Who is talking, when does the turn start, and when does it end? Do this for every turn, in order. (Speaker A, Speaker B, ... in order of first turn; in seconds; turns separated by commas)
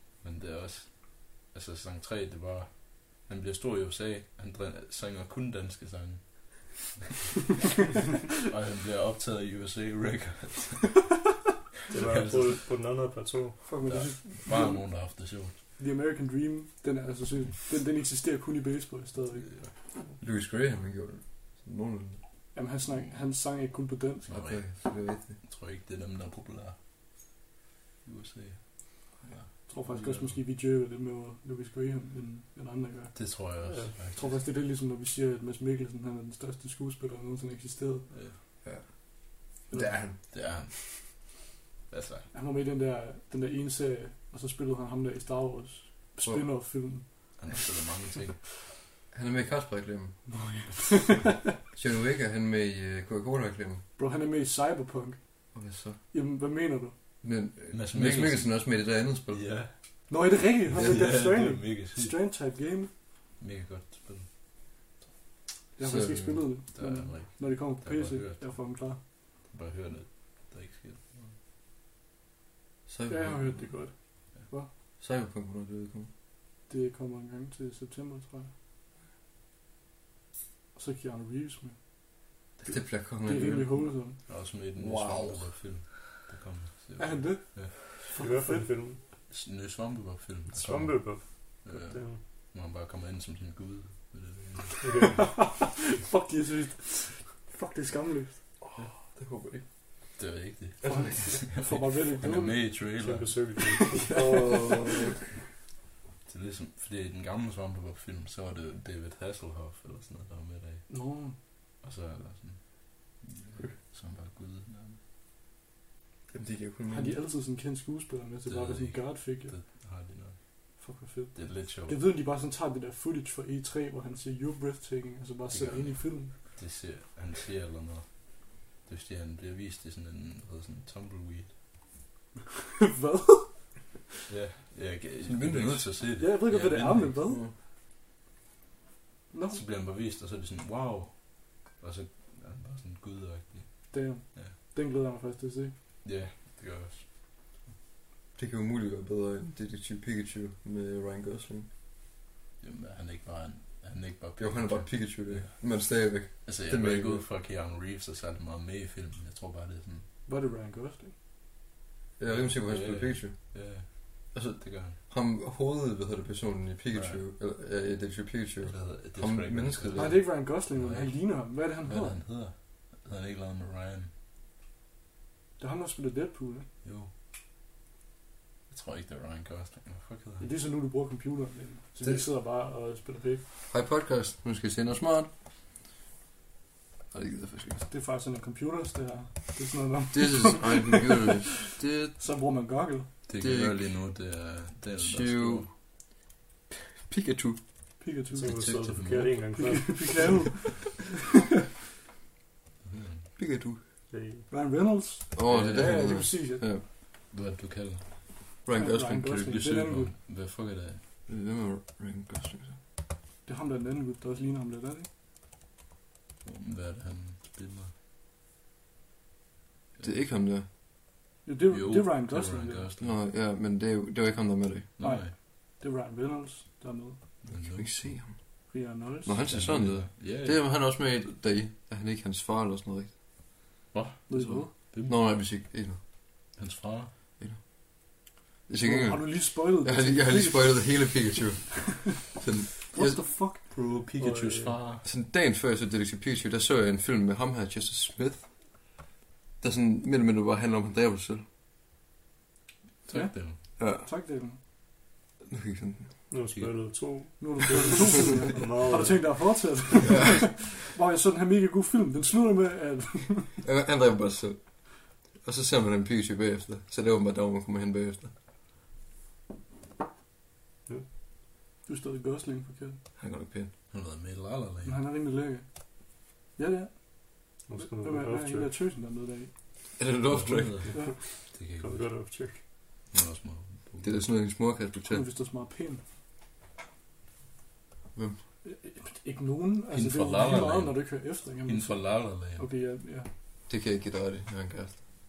Speaker A: 0.2-7.0, Speaker A: 8.4-11.2, Speaker B: 11.9-13.7, Speaker A: 12.0-12.6, Speaker C: 13.6-19.6, Speaker A: 13.9-15.6, Speaker A: 19.4-19.7, Speaker D: 20.2-22.2, Speaker C: 22.5-24.3, Speaker A: 24.2-26.8, Speaker D: 24.3-25.4, Speaker A: 28.0-30.4, Speaker C: 29.6-33.6, Speaker A: 33.1-34.4, Speaker B: 33.6-33.9, Speaker C: 34.1-38.1, Speaker A: 38.1-38.4, Speaker D: 38.6-40.2, Speaker C: 39.7-40.3, Speaker A: 40.1-42.3, Speaker C: 42.3-47.7, Speaker D: 46.2-46.5, Speaker A: 47.4-48.5, Speaker D: 49.1-50.3, Speaker C: 50.3-51.5, Speaker D: 51.7-53.8, Speaker C: 54.0-57.0, Speaker D: 55.5-56.0, Speaker D: 57.2-59.8, Speaker A: 57.7-62.2, Speaker C: 60.1-62.9, Speaker D: 60.7-61.1, Speaker A: 63.4-64.4, Speaker C: 65.8-69.0, Speaker D: 65.8-66.6, Speaker A: 66.7-71.4, Speaker D: 72.9-73.9, Speaker C: 73.1-74.7, Speaker D: 75.0-76.1, Speaker C: 76.7-78.5, Speaker C: 80.7-82.1, Speaker D: 82.6-86.0, Speaker C: 82.7-84.2, Speaker A: 84.2-87.7, Speaker C: 87.0-88.7, Speaker B: 88.1-89.0, Speaker A: 89.2-95.2, Speaker B: 90.5-92.2, Speaker B: 94.8-95.2, Speaker C: 95.2-98.6, Speaker D: 98.6-100.2, Speaker A: 100.2-103.8, Speaker D: 100.8-101.5, Speaker C: 100.8-102.8, Speaker B: 102.9-104.2, Speaker C: 104.1-104.8, Speaker D: 104.1-105.2, Speaker A: 106.2-111.0, Speaker C: 110.9-111.4, Speaker A: 111.8-115.0, Speaker D: 116.3-117.2, Speaker C: 116.9-119.5, Speaker A: 118.5-120.8, Speaker C: 120.8-126.4, Speaker A: 121.3-122.0, Speaker A: 125.5-131.6, Speaker C: 132.8-134.0, Speaker A: 134.3-137.3, Speaker D: 135.2-136.1, Speaker C: 136.2-137.4, Speaker D: 137.3-137.5, Speaker C: 139.3-139.6, Speaker A: 139.5-144.6, Speaker C: 143.9-145.7, Speaker A: 146.0-147.5, Speaker D: 148.3-151.7, Speaker A: 152.6-160.0, Speaker D: 154.4-157.2, Speaker C: 160.2-161.1, Speaker D: 162.2-170.3, Speaker A: 162.3-165.0, Speaker A: 166.9-167.2, Speaker A: 168.6-174.1, Speaker C: 169.9-172.2, Speaker C: 175.6-176.7, Speaker A: 176.8-177.1, Speaker A: 178.7-180.5, Speaker C: 180.4-183.4, Speaker D: 183.7-185.3, Speaker D: 187.1-187.8, Speaker C: 187.8-191.4, Speaker D: 190.1-192.2, Speaker C: 192.1-193.1, Speaker A: 193.3-195.7, Speaker D: 193.4-193.8, Speaker D: 195.0-195.8, Speaker D: 197.0-197.9, Speaker C: 198.0-198.7, Speaker B: 198.3-200.4, Speaker A: 198.4-199.6, Speaker C: 199.5-201.0, Speaker A: 202.8-203.3, Speaker D: 203.3-203.8, Speaker B: 204.1-204.5, Speaker C: 204.5-206.6, Speaker D: 205.3-206.8, Speaker A: 205.5-206.2, Speaker A: 207.3-208.5, Speaker D: 208.6-209.7, Speaker C: 208.8-210.1, Speaker A: 209.4-211.0, Speaker D: 211.3-212.8, Speaker C: 213.4-215.1, Speaker A: 216.4-217.9, Speaker D: 220.0-220.7, Speaker C: 221.4-222.9, Speaker A: 221.7-223.1, Speaker D: 223.0-224.9, Speaker A: 225.0-225.3, Speaker C: 225.0-227.3, Speaker A: 227.4-228.2, Speaker D: 227.5-233.8, Speaker C: 228.7-229.4, Speaker A: 229.5-231.1, Speaker A: 233.9-235.3, Speaker C: 234.3-234.7, Speaker D: 234.3-236.0, Speaker A: 236.5-237.1, Speaker D: 237.4-243.2, Speaker C: 238.8-241.2, Speaker C: 241.9-242.2, Speaker C: 242.9-243.6, Speaker A: 243.5-245.0, Speaker B: 244.2-244.8, Speaker D: 245.0-249.0, Speaker D: 249.6-251.4, Speaker A: 253.1-253.6, Speaker C: 253.1-254.6, Speaker D: 253.8-254.0, Speaker D: 255.5-256.3, Speaker B: 256.3-259.5, Speaker A: 256.5-257.3, Speaker C: 257.4-263.6, Speaker D: 260.1-260.6, Speaker D: 263.6-268.3, Speaker C: 271.8-273.0, Speaker D: 273.2-273.7, Speaker A: 273.9-275.0, Speaker C: 274.8-280.0, Speaker B: 277.6-278.7, Speaker D: 280.0-281.1, Speaker A: 280.3-282.2, Speaker B: 280.9-282.6, Speaker A: 283.1-284.3, Speaker D: 284.0-285.2, Speaker C: 285.1-286.0, Speaker D: 288.1-288.4, Speaker C: 288.6-293.3, Speaker A: 289.9-292.7, Speaker D: 293.7-295.1